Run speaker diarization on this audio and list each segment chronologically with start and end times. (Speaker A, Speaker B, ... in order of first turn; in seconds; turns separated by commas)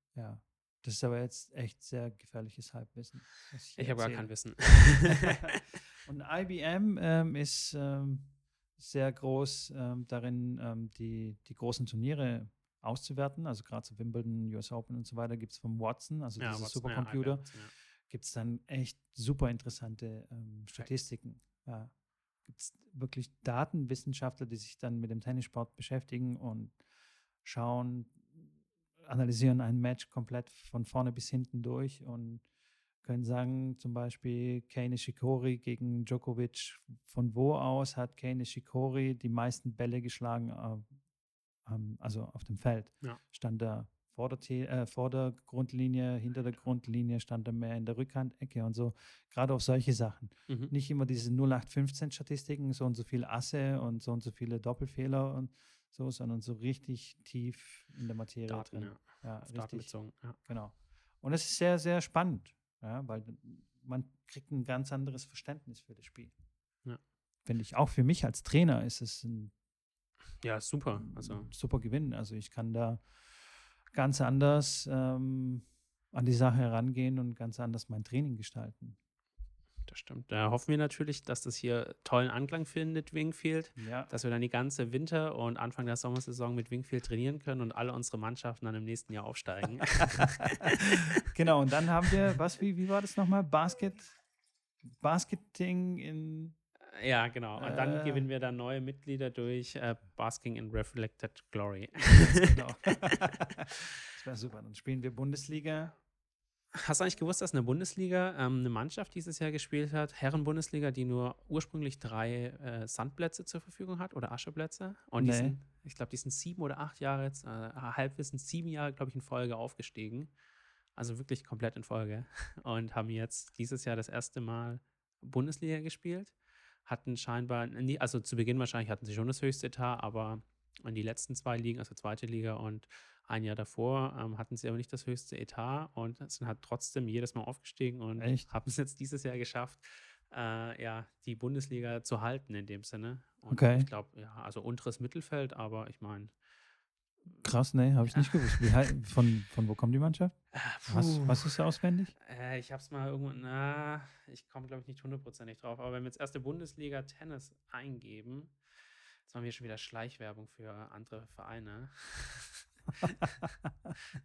Speaker A: 0.1-17.5, Speaker B: 3.8-5.5, Speaker B: 16.4-17.7, Speaker A: 18.1-26.8, Speaker A: 27.4-28.4, Speaker A: 29.0-32.4, Speaker A: 33.0-41.0, Speaker A: 41.6-66.3, Speaker B: 50.5-50.7, Speaker B: 58.5-60.4, Speaker A: 67.5-69.5, Speaker B: 70.4-71.5, Speaker A: 71.0-73.1, Speaker A: 73.9-79.0, Speaker B: 79.9-90.9, Speaker A: 83.8-84.1, Speaker A: 91.3-94.2, Speaker A: 95.0-96.6, Speaker B: 96.9-102.5, Speaker A: 97.6-98.3, Speaker A: 102.1-106.0, Speaker B: 106.7-120.3, Speaker A: 115.2-115.6, Speaker B: 121.0-126.3, Speaker B: 126.9-146.3, Speaker A: 138.2-138.5, Speaker A: 143.5-143.9, Speaker A: 147.4-152.1, Speaker B: 148.1-148.8, Speaker B: 150.5-151.6, Speaker B: 152.2-158.6, Speaker B: 159.3-163.4